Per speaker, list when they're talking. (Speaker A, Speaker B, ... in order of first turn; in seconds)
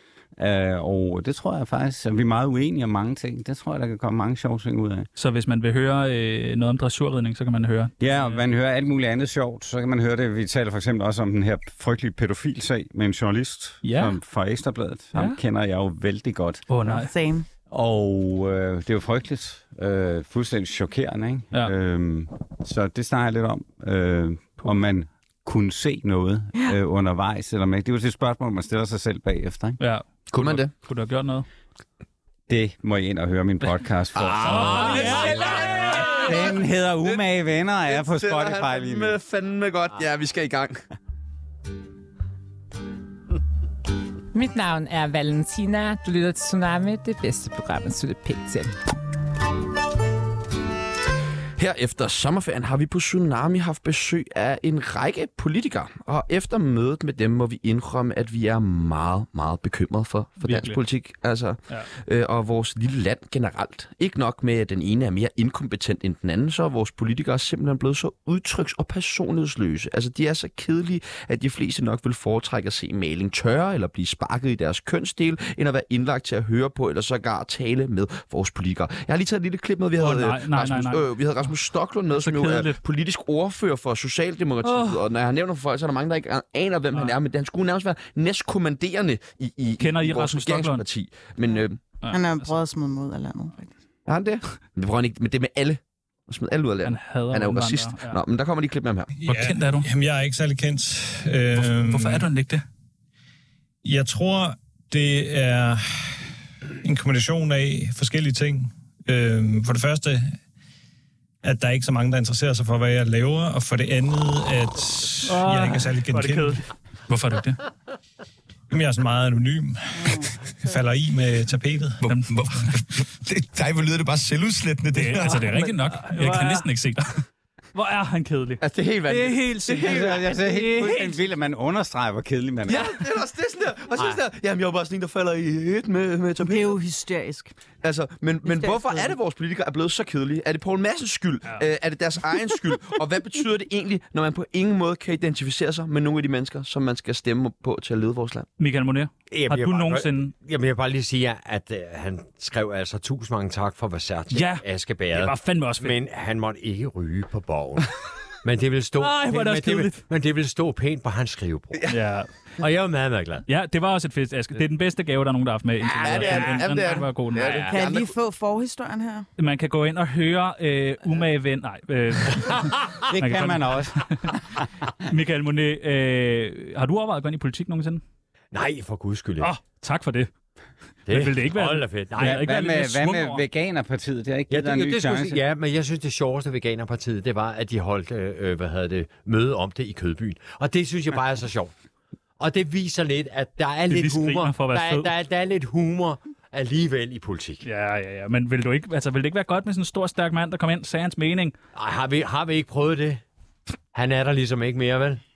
Speaker A: 0.4-5.1, 8.0-16.7, 17.7-29.8, 32.5-35.4, 36.2-39.2, 129.8-132.9, 173.1-174.7, 182.2-185.4
Speaker B: 5.2-8.4, 13.8-14.2, 16.7-17.1, 29.8-31.5, 34.4-36.5, 60.4-60.8, 80.0-81.5, 82.1-82.8, 84.6-85.0, 89.8-90.8, 92.0-92.5, 96.8-98.2, 99.3-99.9, 101.6-102.6, 115.3-117.6, 122.1-122.7, 124.9-127.0, 127.7-131.2, 148.6-150.3, 154.3-156.0, 159.0-160.0, 161.9-162.3, 163.5-167.7, 169.4-174.3, 175.0-178.0, 179.4-180.3, 181.1-183.4, 193.9-195.1, 197.6-201.5
Speaker C: 16.9-17.5, 92.1-93.7, 136.4-137.5, 138.4-139.2, 167.7-169.3
Speaker D: 30.3-30.7, 34.1-36.4, 37.9-40.9, 51.6-91.8, 94.1-99.1, 122.0-126.0, 128.6-130.2, 132.7-136.8, 137.8-148.5, 166.0-168.1
Speaker E: 44.3-48.8
Speaker F: 99.2-102.3, 103.8-106.3, 106.8-110.4, 111.4-116.6, 118.7-122.0
Speaker G: 149.3-161.9, 162.6-163.5, 165.8-166.7, 167.4-167.8, 172.4-172.7, 178.5-179.5, 181.1-182.5, 184.5-191.7, 192.4-197.6, 201.8-203.2, 203.9-205.2